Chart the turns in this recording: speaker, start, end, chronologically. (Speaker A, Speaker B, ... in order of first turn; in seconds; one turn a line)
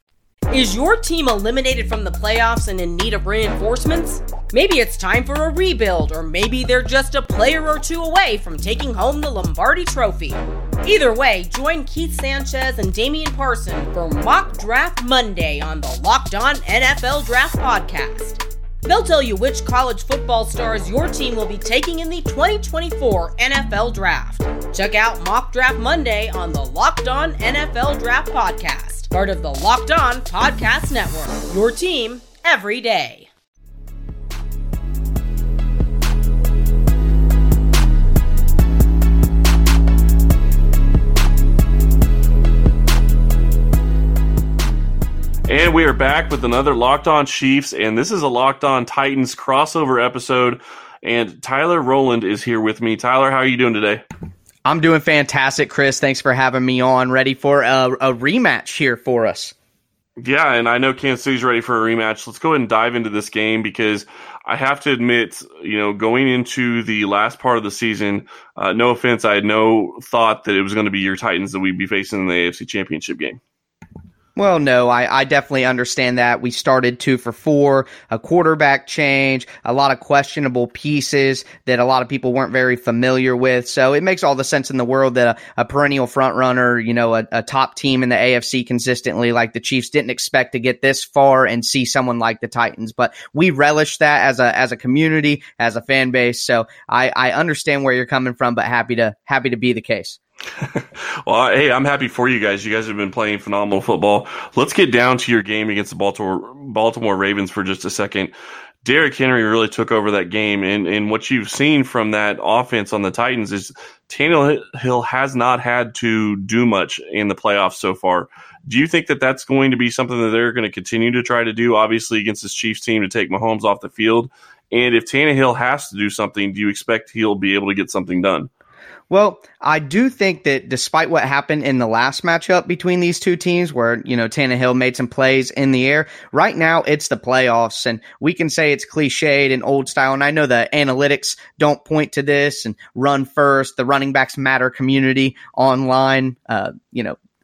Speaker A: 0.5-33.3
Speaker B: 45.5-54.0
Speaker C: 54.7-59.5
Speaker B: 60.2-73.4
Speaker C: 74.4-100.2
Speaker B: 100.8-128.5
Speaker C: 129.1-147.2